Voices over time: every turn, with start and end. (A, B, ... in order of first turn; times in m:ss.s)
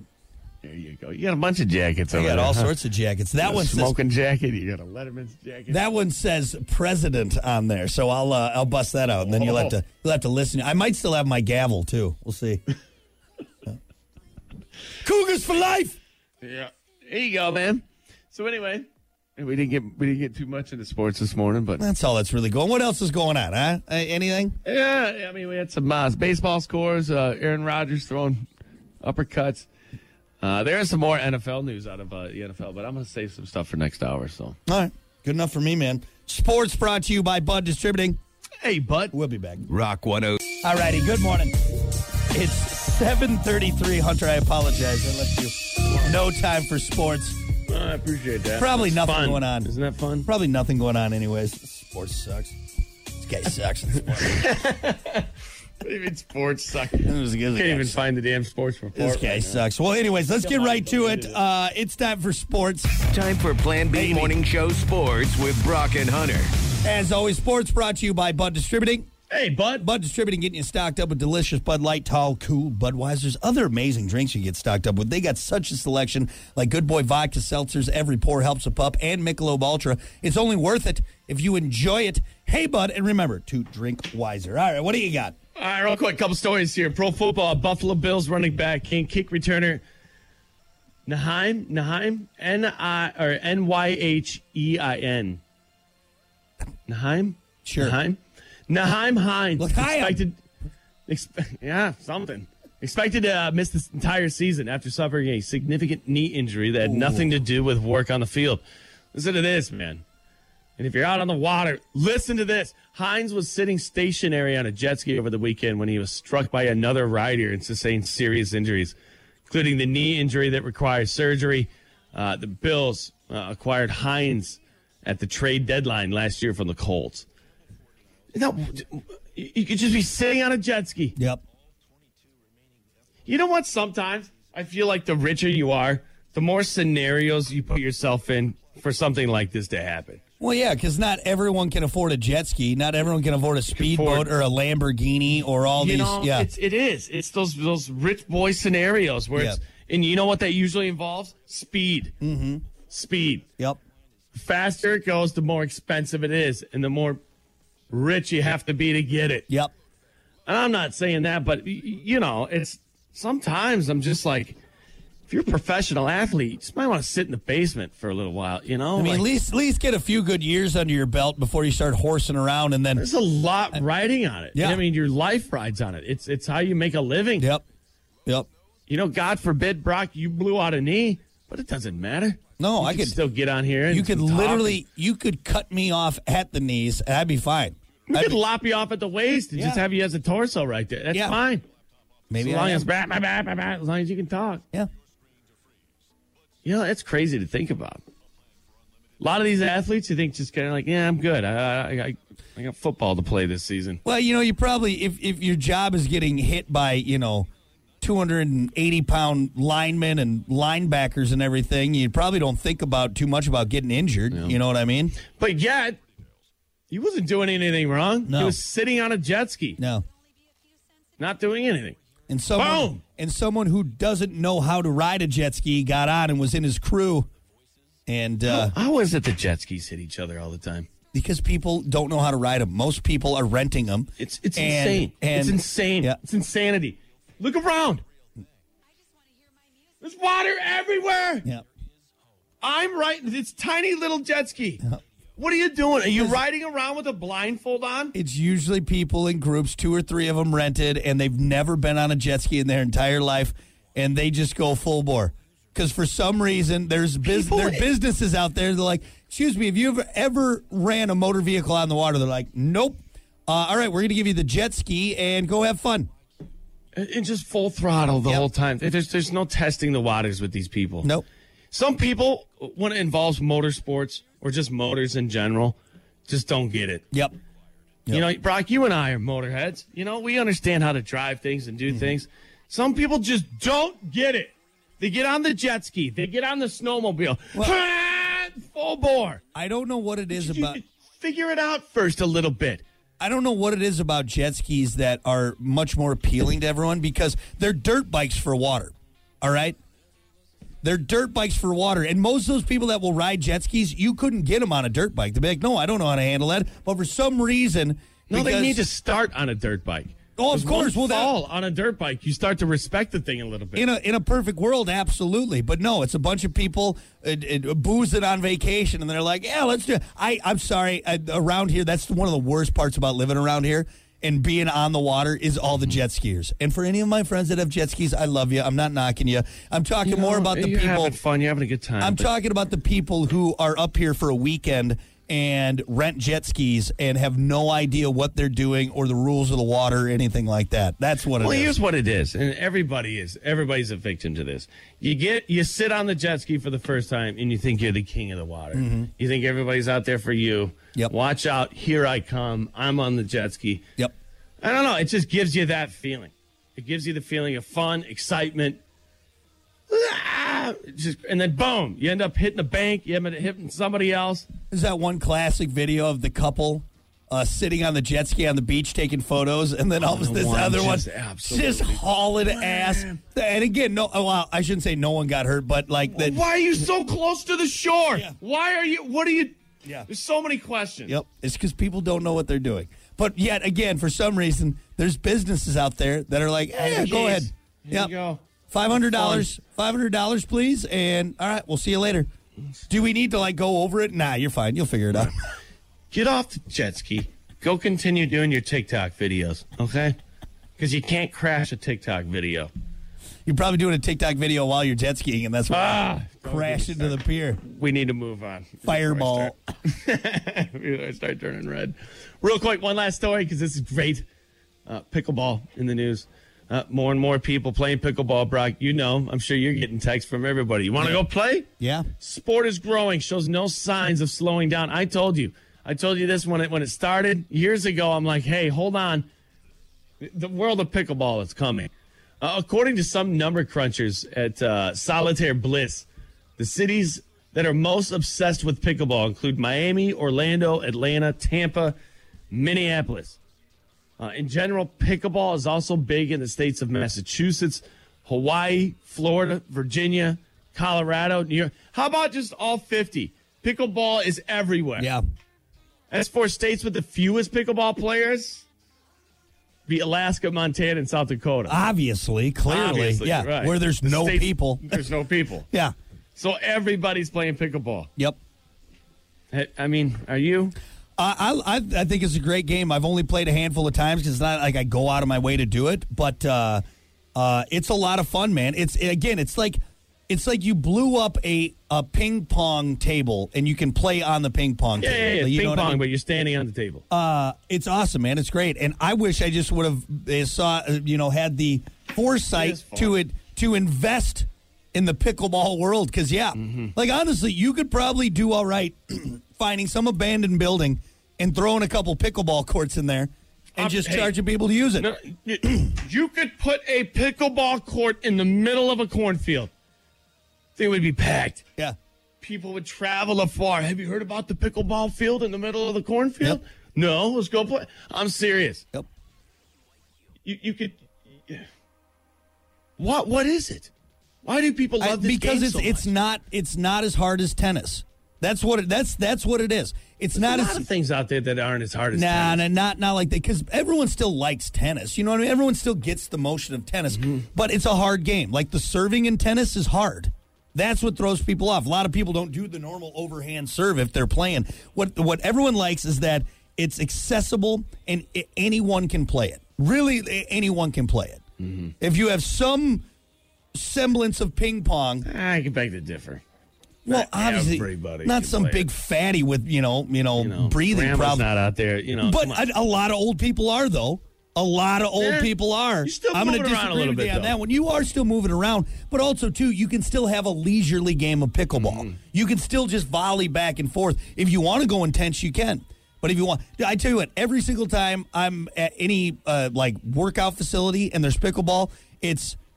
0:00.6-0:02.8 A
0:02.1-0:04.0 B
0:03.4-0:05.8 A
0:05.7-0:12.6 B
0:09.2-0:09.8 A
0:15.0-0:16.0 B
0:16.4-0:21.8 A
0:21.8-0:24.6 B
0:24.6-0:28.5 A
0:29.0-0:29.7 A
0:30.4-0:34.6 A
0:34.6-0:38.2 B
0:38.6-0:39.2 A
0:39.1-0:39.7 B
0:39.7-0:40.4 C
0:40.6-0:41.6 B
0:42.3-0:47.4 B
0:47.7-0:50.3 A
0:48.6-0:49.7 B
0:50.2-0:52.6 B
0:53.2-0:54.5 B
0:54.2-0:55.3 A
0:55.8-0:59.6 A
0:56.9-0:58.0 B
0:58.9-1:02.9 B
1:00.3-1:01.4 A
1:03.1-1:06.5 C
1:03.9-1:04.4 B
1:06.8-1:09.1 B
1:09.3-1:09.9 A
1:09.8-1:25.3 B
1:25.5-1:29.8 A
1:31.0-1:35.4 A
1:36.9-1:40.4 A
1:37.6-1:38.0 B
1:39.6-1:40.2 B
1:41.1-1:50.0 A
1:46.8-1:47.3 B
1:50.8-1:59.0 A
1:59.5-2:07.3 A
2:08.3-2:11.2 A
2:11.2-2:11.4 B
2:13.2-2:20.2 A
2:20.4-2:26.5 B
2:23.7-2:24.3 A
2:25.7-2:32.1 A
2:32.2-2:32.6 B
2:32.9-2:33.4 A
2:34.3-2:37.2 A
2:37.9-2:39.4 A
2:40.4-2:44.6 A
2:45.3-2:49.3 A
2:49.0-2:53.0 B
2:53.0-2:57.5 A
2:54.5-2:54.8 B
2:57.4-2:57.6 B
2:58.9-3:04.8 A
3:02.6-3:03.2 B
3:03.9-3:08.4 B
3:08.1-3:11.6 A
3:09.5-3:09.8 B
3:11.1-3:11.4 B
3:12.3-3:12.9 B
3:12.4-3:14.6 A
3:16.6-3:18.0 A
3:19.2-3:24.0 A
3:24.0-3:27.5 B
3:28.0-3:35.2 B
3:34.3-3:34.6 A
3:35.3-3:36.0 A
3:36.9-3:39.8 A
3:38.2-3:38.6 B
3:39.8-3:40.0 B
3:41.2-3:42.0 A
3:42.3-3:47.3 B
3:42.5-3:43.0 A
3:48.1-3:48.7 B
3:48.5-3:50.9 A
3:51.1-3:56.2 B
3:54.2-3:58.0 A
4:00.0-4:01.4 A
4:02.6-4:04.8 A
4:05.4-4:08.1 A
4:08.1-4:26.1 B
4:17.2-4:17.9 A
4:26.9-4:31.1 A
4:31.7-4:37.0 A
4:37.1-4:37.4 B
4:38.1-4:49.4 A
4:41.9-4:42.1 B
4:49.5-4:50.8 B
4:50.3-4:52.8 A
4:53.2-4:59.8 B
5:00.8-5:08.8 B
5:08.3-5:13.8 A
5:10.4-5:11.3 B
5:13.7-5:31.2 B
5:30.0-5:32.3 A
5:32.0-5:41.8 B
5:41.4-5:53.8 A
5:48.7-5:49.1 B
5:54.6-5:58.8 A
5:59.9-6:04.5 A
6:04.7-6:16.4 B
6:10.0-6:13.2 A
6:16.1-6:19.6 A
6:20.1-6:21.2 A
6:21.1-6:28.1 B
6:26.7-6:28.4 A
6:28.7-6:32.3 B
6:29.0-6:29.5 A
6:32.9-6:35.3 B
6:36.1-6:40.2 A
6:40.8-6:42.7 A
6:43.4-6:47.6 B
6:45.7-6:54.2 A
6:48.8-6:49.6 B
6:54.8-7:09.3 A
7:01.8-7:02.1 B
7:10.2-7:16.1 A
7:16.6-7:22.0 A
7:22.5-7:23.4 A
7:24.2-7:35.1 A
7:35.0-7:35.2 B
7:36.1-7:38.6 A
7:39.9-7:41.8 A
7:41.7-7:45.0 B
7:42.6-7:45.6 A
7:46.3-7:48.1 A
7:49.5-7:50.7 A
7:51.2-7:56.8 B
7:57.3-8:06.0 B
8:05.0-8:07.0 A
8:07.1-8:25.1 B
8:12.5-8:13.2 A
8:16.6-8:16.9 A
8:23.8-8:24.4 A
8:25.0-8:29.7 A
8:30.8-8:31.6 A
8:32.4-8:38.8 A
8:40.4-8:41.7 A
8:43.0-8:43.9 A
8:44.4-8:46.1 A
8:45.0-8:50.9 B
8:50.3-8:52.6 A
8:52.1-9:11.4 B
9:11.6-9:11.9 A
9:12.0-9:13.0 B
9:13.7-9:15.2 B
9:15.2-9:16.4 A
9:17.0-9:21.5 B
9:17.1-9:18.9 A
9:20.4-9:22.6 A
9:22.2-9:42.6 B
9:25.2-9:27.6 A
9:31.7-9:32.1 A